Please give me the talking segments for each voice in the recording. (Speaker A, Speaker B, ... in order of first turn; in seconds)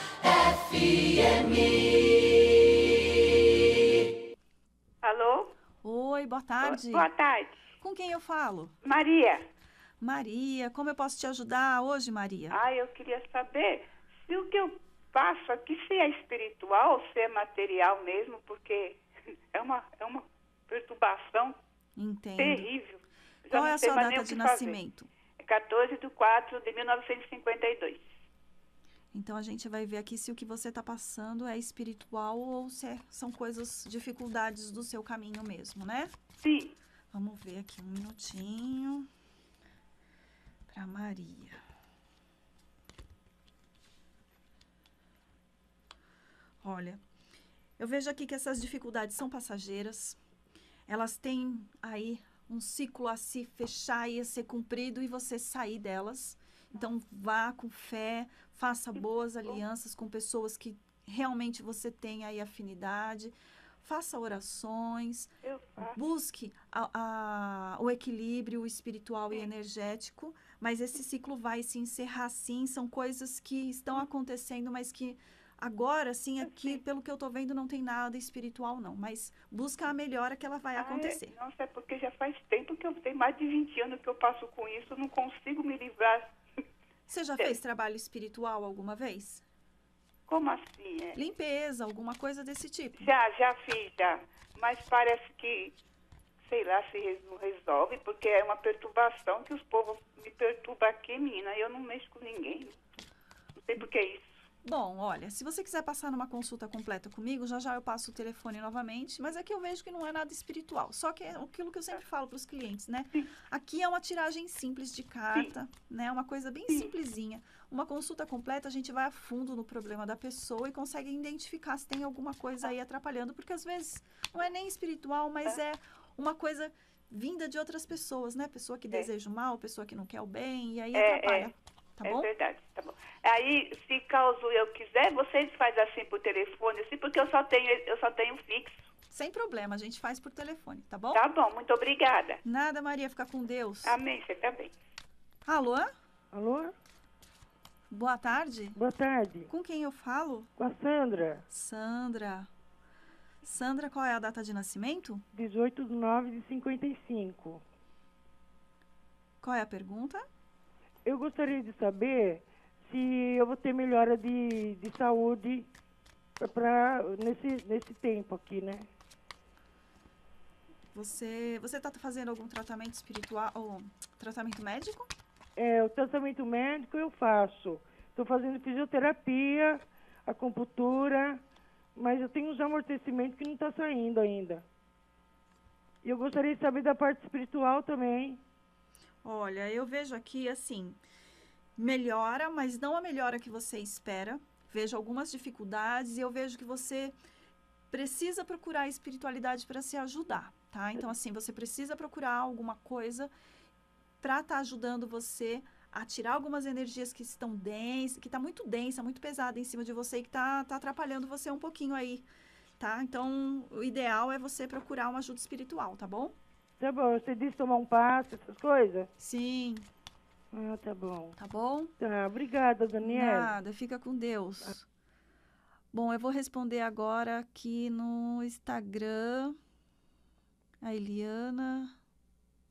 Speaker A: 5.0-5.5, 6.6-7.6, 8.8-9.4, 12.5-19.0, 19.5-21.6, 22.4-24.8, 25.4-28.0, 36.4-36.7, 65.4-65.9, 80.8-86.3, 90.3-91.2, 93.0-95.7, 96.5-102.7, 103.6-104.2, 130.9-131.5, 132.0-138.7, 141.1-142.4, 143.8-144.7
Speaker B: 5.8-7.1, 7.8-8.7, 10.0-12.6, 22.0-22.7, 23.5-25.1, 29.1-36.1, 37.1-39.1, 40.7-41.6, 46.6-47.0, 47.8-50.2, 50.9-65.3, 65.8-81.3, 87.1-89.4, 91.2-93.1, 104.6-132.3, 139.1-141.2, 142.4-144.0, 145.4-145.9, 147.9-148.8, 149.5-150.5, 151.5-152.5, 153.4-155.2, 159.4-160.2, 170.9-175.1, 189.2-191.0, 191.8-197.2, 197.9-203.3, 204.2-212.3, 212.8-216.3, 219.2-219.9, 221.4-221.9, 223.0-224.8, 225.9-229.6, 230.8-231.9
Speaker C: 146.3-146.7, 148.7-149.5, 150.6-151.4, 155.3-157.6, 161.0-165.7, 166.4-168.9, 175.6-181.4, 181.9-184.7, 186.0-188.4, 216.8-219.1, 220.5-221.3, 222.0-223.5